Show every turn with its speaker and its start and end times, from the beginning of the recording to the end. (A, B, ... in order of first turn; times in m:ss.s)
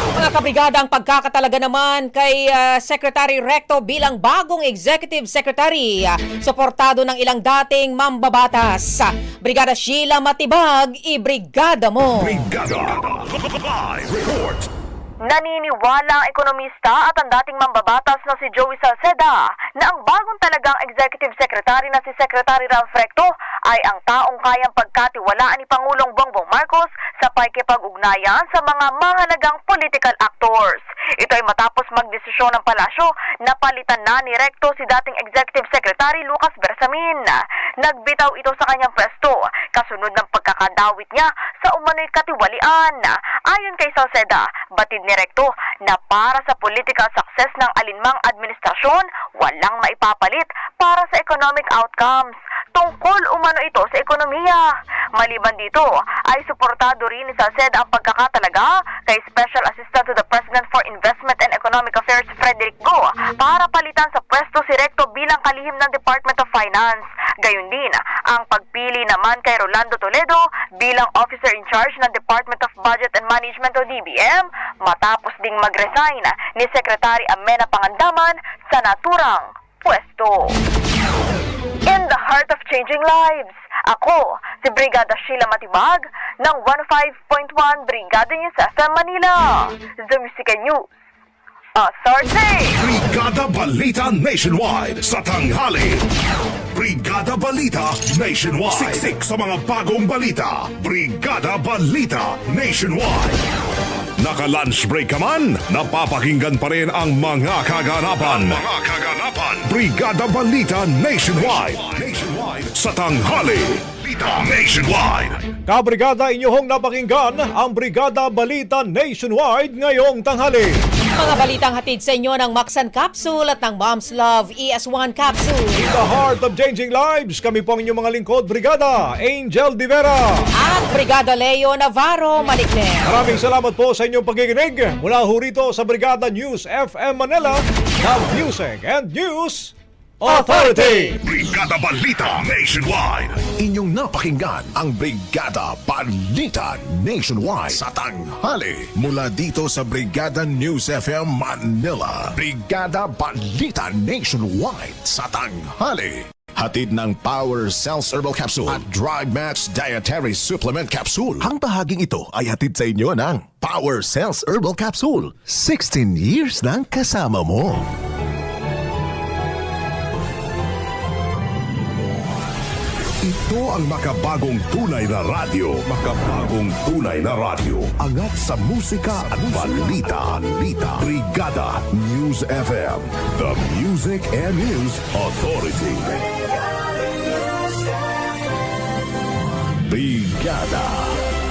0:00.1-0:12.4 A
0:12.2-0:14.7 B
0:15.2-0:54.6 C
0:55.2-1:20.6 C
1:21.8-1:30.8 C
1:31.7-1:32.8 C
1:32.7-1:36.0 B
1:36.7-1:43.4 B
1:44.2-1:55.4 B
1:55.7-2:00.8 D
2:01.1-2:05.9 A
2:05.8-2:10.5 D
2:10.6-2:13.0 A
2:13.0-2:21.2 D
2:21.2-2:23.4 B
2:23.6-2:47.9 E
2:53.2-3:06.1 B
2:58.0-2:58.3 E
2:59.1-3:01.1 E
3:01.8-3:04.9 E
3:09.8-3:11.2 E